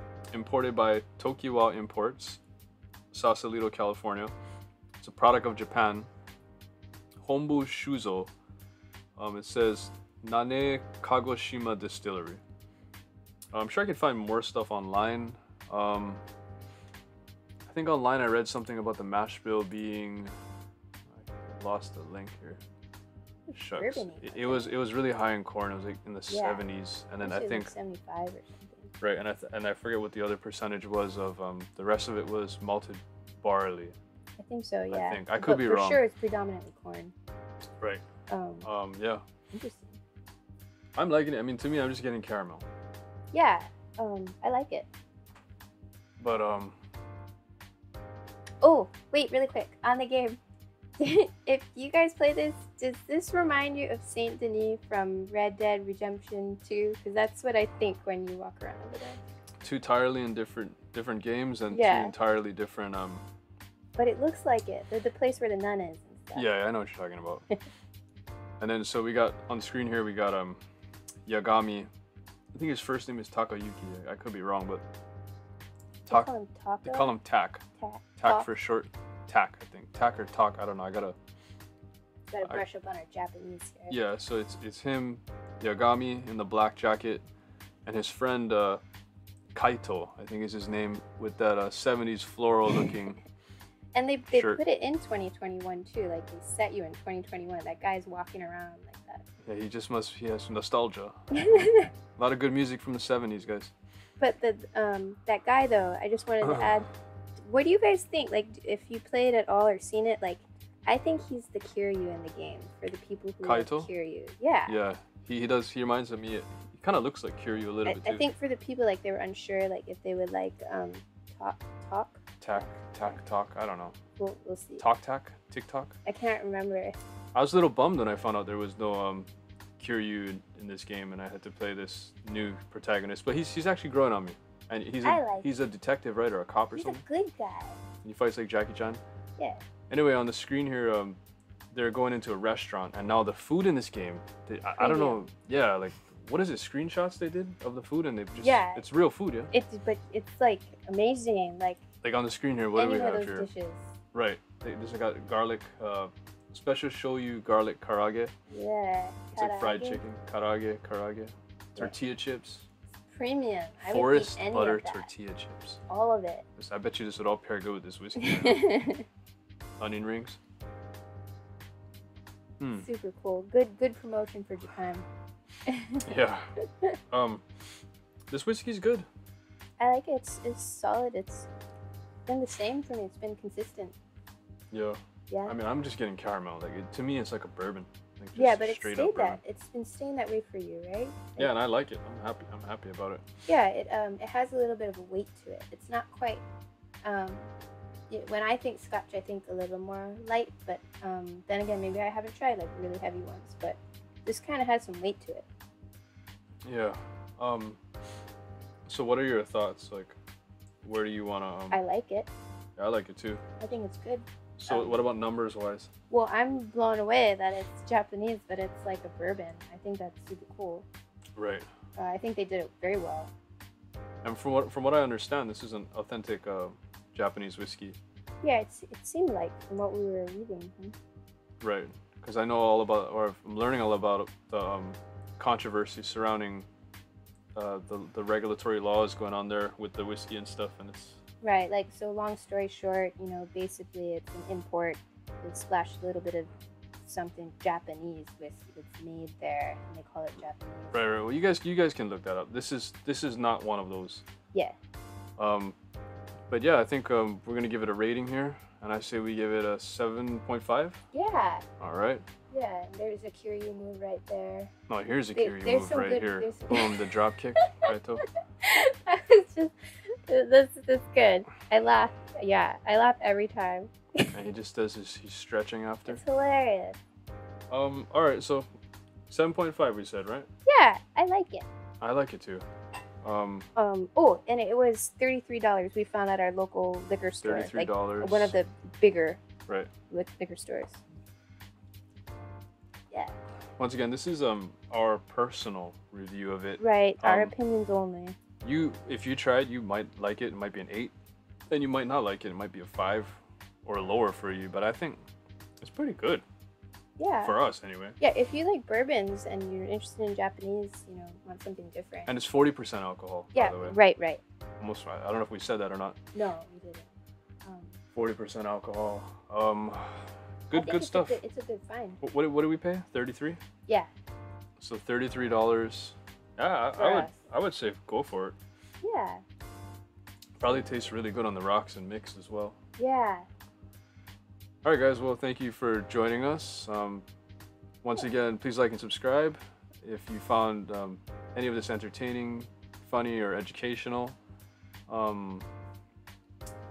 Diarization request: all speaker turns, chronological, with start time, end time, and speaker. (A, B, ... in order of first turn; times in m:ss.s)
0:00.3-0:02.4 A
0:03.1-0:04.3 A
0:05.0-0:06.1 A
0:07.2-0:08.3 A
0:09.2-0:12.4 A
0:13.5-0:16.2 A
0:17.7-0:20.3 A
0:21.1-0:22.6 A
0:23.5-0:27.7 A
0:23.5-0:24.7 B
0:26.3-0:26.6 B
0:27.2-0:28.9 B
0:29.0-0:34.0 A
0:34.4-0:37.1 B
0:34.9-0:36.0 A
0:38.3-0:38.7 B
0:38.6-0:39.2 A
0:39.5-0:40.0 B
0:41.0-0:42.6 A
0:43.3-0:44.9 B
0:46.2-0:46.8 A
0:48.6-0:50.4 B
0:51.0-0:59.2 B
0:59.6-1:03.2 A
1:01.7-1:02.1 B
1:04.0-1:06.5 B
1:06.3-1:07.4 A
1:08.6-1:10.6 A
1:11.2-1:11.9 A
1:12.5-1:14.8 A
1:16.1-1:17.1 B
1:16.8-1:17.6 A
1:17.8-1:18.5 B
1:18.2-1:21.2 A
1:22.3-1:24.0 B
1:23.9-1:27.2 A
1:27.8-1:28.8 A
1:29.5-1:33.2 A
1:33.9-1:39.2 B
1:34.3-1:34.6 A
1:39.4-1:41.6 A
1:41.3-1:41.9 B
1:42.2-1:43.7 A
1:44.2-1:54.8 B
1:46.4-1:46.8 A
1:53.4-1:53.9 A
1:54.7-1:58.3 A
1:57.8-2:03.1 B
2:02.4-2:03.9 A
2:04.2-2:04.8 B
2:04.8-2:05.9 A
2:06.0-2:07.0 B
2:07.3-2:17.0 A
2:15.0-2:15.5 B
2:16.7-2:17.8 B
2:18.0-2:19.0 A
2:19.4-2:19.6 B
2:19.9-2:21.2 A
2:21.7-2:29.5 A
2:24.8-2:25.2 B
2:28.4-2:28.8 B
2:29.5-2:31.8 B
2:32.0-2:33.5 A
2:32.7-2:33.9 B
2:34.1-2:38.3 A
2:38.5-2:40.0 B
2:39.4-2:42.7 A
2:43.1-2:45.1 B
2:43.9-2:45.8 A
2:45.9-2:46.4 B
2:46.6-2:48.6 A
2:48.2-2:49.0 B
2:49.8-2:50.4 A
2:52.6-2:52.9 A
2:52.8-2:55.0 B
2:55.6-2:57.0 B
2:56.0-2:56.5 A
2:57.1-2:57.4 A
2:58.3-2:59.1 A
2:59.8-3:01.5 B
3:02.3-3:04.0 B
3:04.7-3:09.4 A
3:05.3-3:05.6 B
3:08.3-3:11.5 B
3:11.4-3:13.2 A
3:13.5-3:16.4 B
3:17.0-3:17.5 B
3:18.1-3:25.4 B
3:26.6-3:27.8 A
3:28.9-3:30.2 A
3:30.8-3:31.8 A
3:31.7-3:32.3 B
3:32.8-3:33.4 A
3:33.6-3:35.0 B
3:34.6-3:35.9 A
3:36.1-3:40.9 B
3:41.4-3:41.7 A
3:42.0-3:43.3 B
3:44.2-3:48.0 A
3:48.4-3:50.9 B
3:51.6-3:56.7 A
3:57.5-4:01.2 A
4:01.4-4:06.5 B
4:07.0-4:11.0 B
4:10.9-4:14.2 A
4:15.4-4:15.8 A
4:16.5-4:21.0 A
4:21.1-4:21.6 B
4:21.8-4:22.2 A
4:22.5-4:24.7 B
4:24.9-4:28.2 A
4:25.4-4:27.1 B
4:27.6-4:27.9 B
4:28.6-4:34.4 B
4:34.3-4:36.2 A
4:36.1-4:37.0 B
4:37.7-4:38.7 A
4:39.3-4:40.5 A
4:40.6-4:41.7 B
4:42.0-4:42.6 A
4:43.2-4:43.7 A
4:43.8-4:49.4 B
4:47.4-4:48.5 A
4:50.1-4:51.0 B
4:53.8-4:57.5 A
4:56.8-4:58.4 B
4:58.6-5:01.1 A
5:01.7-5:05.2 A
5:05.8-5:06.4 A
5:07.2-5:07.5 B
5:07.4-5:08.2 A
5:08.2-5:12.3 B
5:12.3-5:14.0 A
5:13.5-5:14.4 B
5:14.8-5:16.2 A
5:16.3-5:17.1 B
5:17.6-5:18.0 B
5:18.1-5:21.4 A
5:20.7-5:22.2 B
5:22.2-5:23.6 A
5:24.8-5:28.6 A
5:27.0-5:27.4 B
5:29.0-5:29.4 B
5:30.6-5:32.8 A
5:33.0-5:33.5 B
5:34.8-5:37.2 A
5:38.0-5:44.4 A
5:45.1-5:45.7 A